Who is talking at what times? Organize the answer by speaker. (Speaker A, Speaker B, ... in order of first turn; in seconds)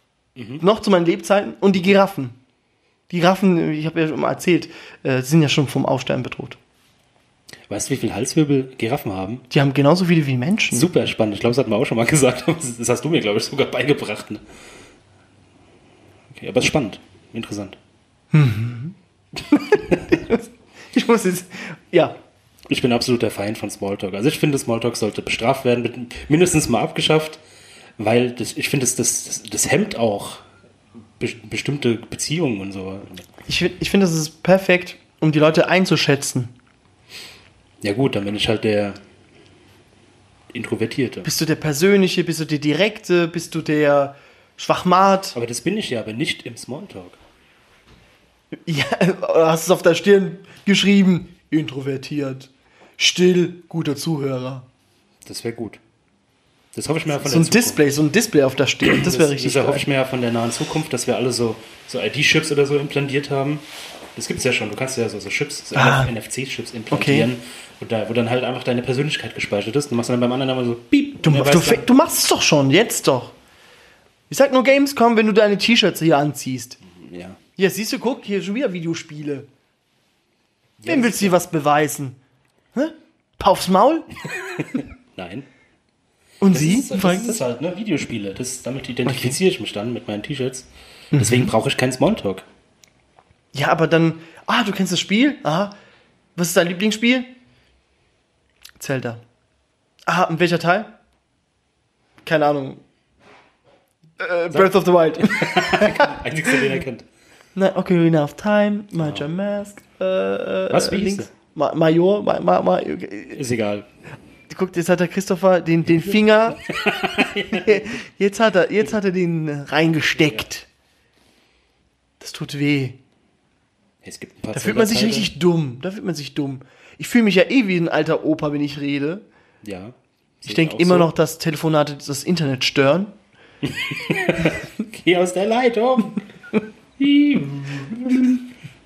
Speaker A: 0.3-0.6, 7.7-9.4, 10.7-14.4, 16.3-17.8, 19.9-20.1, 22.7-27.4, 28.0-30.4, 31.2-33.3, 37.8-39.0, 40.5-41.3, 45.3-47.2, 55.2-55.8, 56.7-58.0, 58.8-71.9, 76.8-77.4, 80.8-81.4, 84.6-85.5, 86.5-92.4, 104.5-107.1, 109.0-109.3, 110.7-111.3, 113.3-113.9, 116.5-117.9, 124.0-125.3, 129.6-131.1, 133.6-136.2, 137.0-138.4
Speaker B: 0.6-2.4, 3.1-6.6, 9.5-10.9, 18.3-18.9, 19.5-22.1, 33.5-36.5, 41.2-45.4, 48.6-54.6, 57.1-59.9, 65.8-66.1, 66.9-67.3, 71.2-73.3, 74.3-76.8, 77.6-79.5, 80.9-82.2, 82.8-84.1, 86.4-87.4, 89.1-89.4, 91.1-91.5, 93.5-95.7, 96.4-97.3, 98.8-99.2, 100.1-100.9, 102.2-102.8, 104.2-106.2, 107.5-113.4, 114.5-116.6, 117.5-120.7, 122.2-123.0, 124.5-129.2, 130.4-133.1